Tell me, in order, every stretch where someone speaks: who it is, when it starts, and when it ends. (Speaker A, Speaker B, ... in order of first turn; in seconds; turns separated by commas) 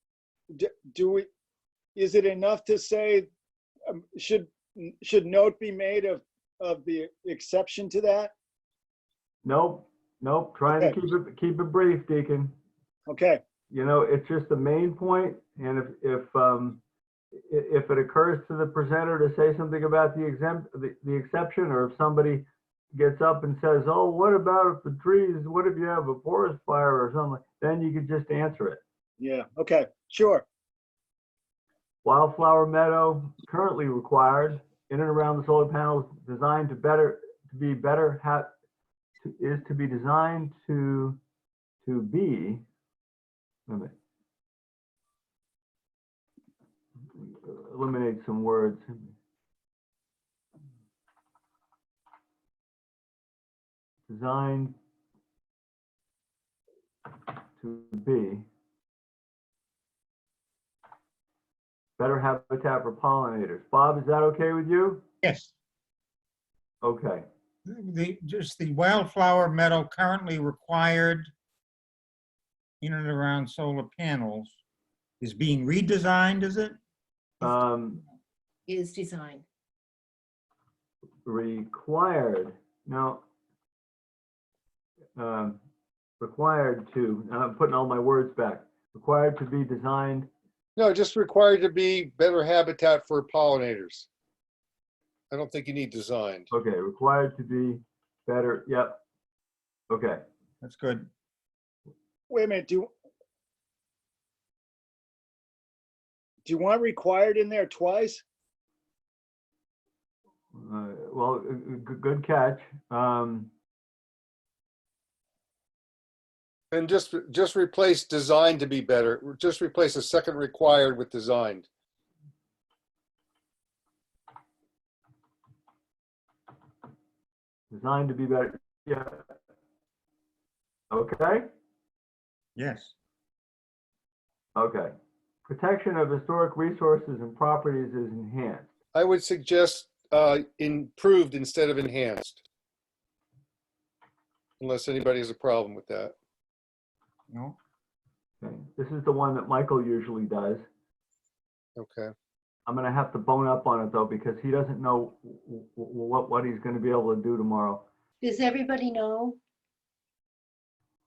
Speaker A: 0.5-1.3, Speaker A: 1.9-3.3, Speaker A: 3.9-8.3, Speaker B: 9.4-12.6, Speaker A: 10.7-10.9, Speaker A: 13.1-13.4, Speaker B: 13.7-16.8, Speaker B: 17.4-28.8, Speaker A: 29.2-30.4, Speaker B: 32.0-38.5, Speaker B: 39.2-41.2, Speaker B: 41.8-42.6, Speaker B: 43.7-43.9, Speaker B: 47.2-49.1, Speaker B: 54.1-54.7, Speaker B: 57.6-58.5, Speaker B: 62.0-65.0, Speaker C: 65.2-65.5, Speaker B: 66.8-67.2, Speaker C: 67.7-71.3, Speaker C: 72.8-74.5, Speaker C: 75.2-76.8, Speaker B: 77.4-78.0, Speaker D: 78.7-79.4, Speaker B: 81.2-83.2, Speaker B: 85.2-85.6, Speaker B: 86.2-90.3, Speaker E: 90.8-94.1, Speaker E: 95.3-96.5, Speaker B: 96.5-99.0, Speaker B: 99.9-100.2, Speaker C: 100.6-101.1, Speaker A: 102.3-102.9, Speaker A: 106.4-108.2, Speaker B: 110.5-113.5, Speaker E: 116.7-121.7, Speaker B: 127.7-129.2, Speaker B: 130.9-131.5, Speaker C: 132.6-132.9, Speaker B: 134.5-134.9, Speaker B: 135.4-138.7, Speaker E: 138.9-142.4, Speaker E: 144.6-146.1, Speaker C: 147.3-147.6, Speaker B: 148.4-150.7, Speaker E: 151.8-152.1, Speaker B: 152.7-157.9, Speaker D: 158.2-159.4